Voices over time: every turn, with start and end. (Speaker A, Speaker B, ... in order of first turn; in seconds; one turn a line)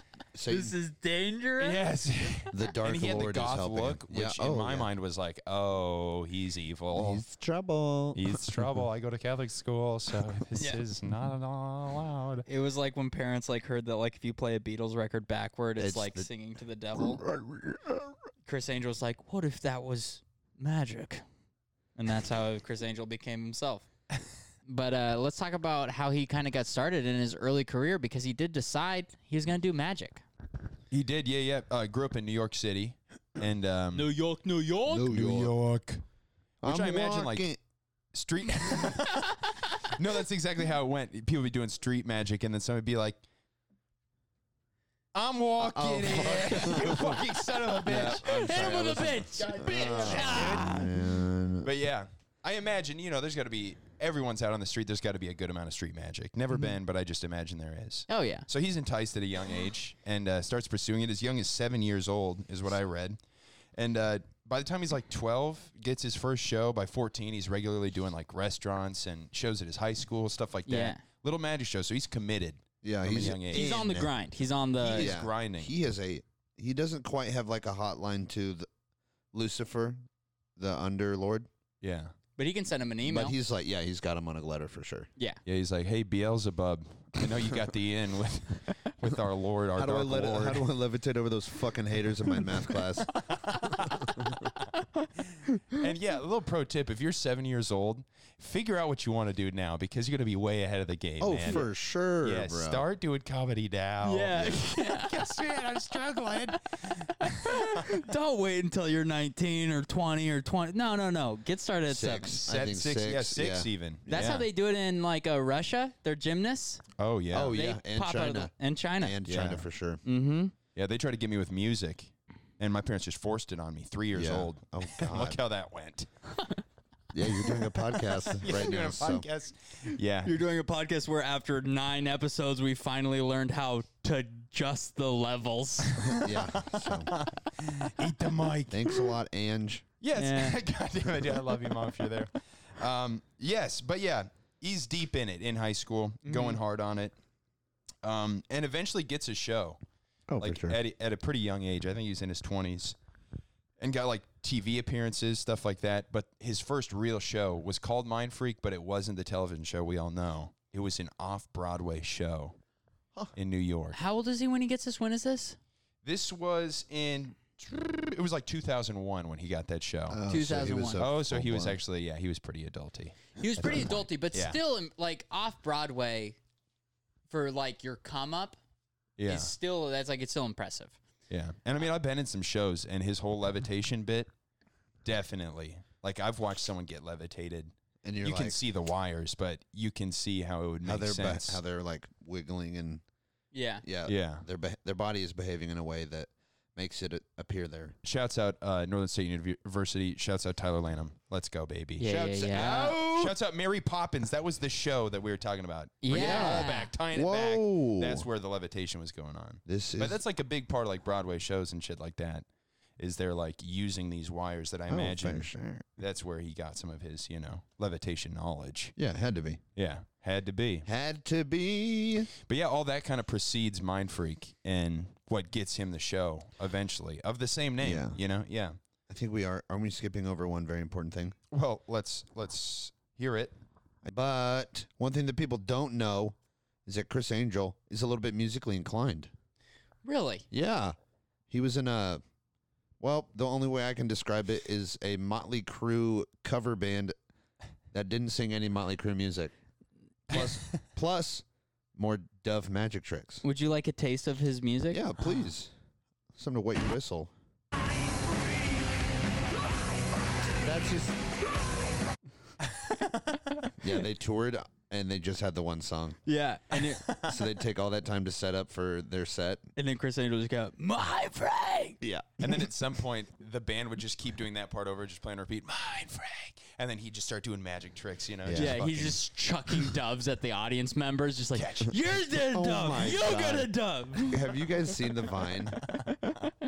Speaker A: 0.3-0.7
Speaker B: 0.5-1.8
Speaker C: 1.6-7.2
Speaker A: 2.5-4.9
Speaker A: 6.9-8.7
Speaker C: 8.2-12.5
Speaker B: 10.6-10.8
Speaker B: 12.5-17.2
Speaker A: 15.8-16.3
Speaker A: 17.0-18.1
Speaker B: 18.5-21.2
Speaker B: 22.0-23.9
Speaker B: 24.7-30.2
Speaker C: 30.9-34.1
Speaker B: 34.0-35.1
Speaker A: 34.9-35.5
Speaker C: 35.0-36.0
Speaker C: 36.6-37.5
Speaker A: 36.6-37.6
Speaker C: 38.1-43.2
Speaker C: 45.1-50.8
Speaker A: 45.6-51.7
Speaker B: 48.2-50.9
Speaker C: 51.6-63.2
Speaker B: 58.1-58.5
Speaker C: 63.8-73.7
Speaker B: 70.7-71.0
Speaker A: 72.8-74.1
Speaker B: 73.5-75.1
Speaker C: 74.8-75.7
Speaker A: 74.9-78.7
Speaker A: 79.3-80.0
Speaker A: 80.6-81.5
Speaker C: 81.8-82.1
Speaker B: 82.4-83.3
Speaker A: 83.0-85.1
Speaker C: 85.5-90.7
Speaker A: 89.8-93.1
Speaker C: 93.3-94.3
Speaker A: 93.7-94.5
Speaker B: 94.8-95.1
Speaker C: 95.3-101.7
Speaker A: 101.2-102.8
Speaker C: 102.2-107.9
Speaker B: 104.0-105.1
Speaker B: 107.2-112.4
Speaker A: 111.9-114.4
Speaker C: 112.4-114.5
Speaker B: 114.1-116.8
Speaker C: 117.0-117.6
Speaker A: 117.3-120.0
Speaker B: 117.5-119.2
Speaker C: 119.3-119.7
Speaker B: 120.0-120.5
Speaker C: 120.8-126.1
Speaker A: 124.1-125.4
Speaker A: 127.1-129.3
Speaker C: 128.4-130.3
Speaker B: 130.2-136.2
Speaker C: 135.9-139.1
Speaker A: 136.1-137.1
Speaker A: 138.7-139.9
Speaker C: 140.0-147.2
Speaker B: 140.2-140.6
Speaker B: 146.2-146.6
Speaker C: 148.0-149.8
Speaker A: 150.3-150.8
Speaker C: 150.4-153.0
Speaker C: 153.8-162.6
Speaker C: 163.3-164.0
Speaker B: 163.9-165.6
Speaker C: 166.0-170.2
Speaker A: 170.1-171.8
Speaker B: 170.3-171.0
Speaker C: 171.0-174.6
Speaker B: 173.4-176.4
Speaker A: 173.6-174.0
Speaker B: 177.3-178.6
Speaker C: 179.2-179.5
Speaker B: 179.3-181.0
Speaker C: 181.3-184.3
Speaker C: 185.0-191.6
Speaker A: 188.0-188.6
Speaker A: 190.8-193.0
Speaker B: 193.5-193.8
Speaker A: 193.8-197.9
Speaker C: 194.1-194.4
Speaker C: 198.0-212.4
Speaker B: 202.0-202.9
Speaker A: 202.5-203.4
Speaker B: 206.0-206.9
Speaker A: 206.1-208.3
Speaker A: 209.7-210.2
Speaker C: 213.0-218.9
Speaker A: 214.9-215.9
Speaker A: 219.0-219.6
Speaker C: 219.8-220.9
Speaker A: 220.9-222.3
Speaker C: 222.4-228.8
Speaker A: 227.8-228.2
Speaker A: 229.1-231.3
Speaker C: 231.5-233.5
Speaker A: 234.0-239.3
Speaker B: 240.1-240.5
Speaker A: 240.5-240.9
Speaker A: 241.5-242.2
Speaker A: 243.0-247.1
Speaker A: 247.9-249.5
Speaker A: 250.3-251.4
Speaker C: 250.3-250.6
Speaker A: 251.9-253.4
Speaker B: 253.4-255.0
Speaker A: 254.9-255.7
Speaker A: 256.4-257.3
Speaker A: 260.6-261.2
Speaker A: 263.8-266.2
Speaker B: 266.3-267.1
Speaker C: 267.0-267.4
Speaker A: 267.2-269.6
Speaker B: 269.8-272.0
Speaker A: 272.0-272.7
Speaker C: 272.4-279.2
Speaker A: 278.4-278.8
Speaker B: 278.5-284.7
Speaker C: 281.6-282.0
Speaker A: 282.4-285.8
Speaker B: 285.9-286.5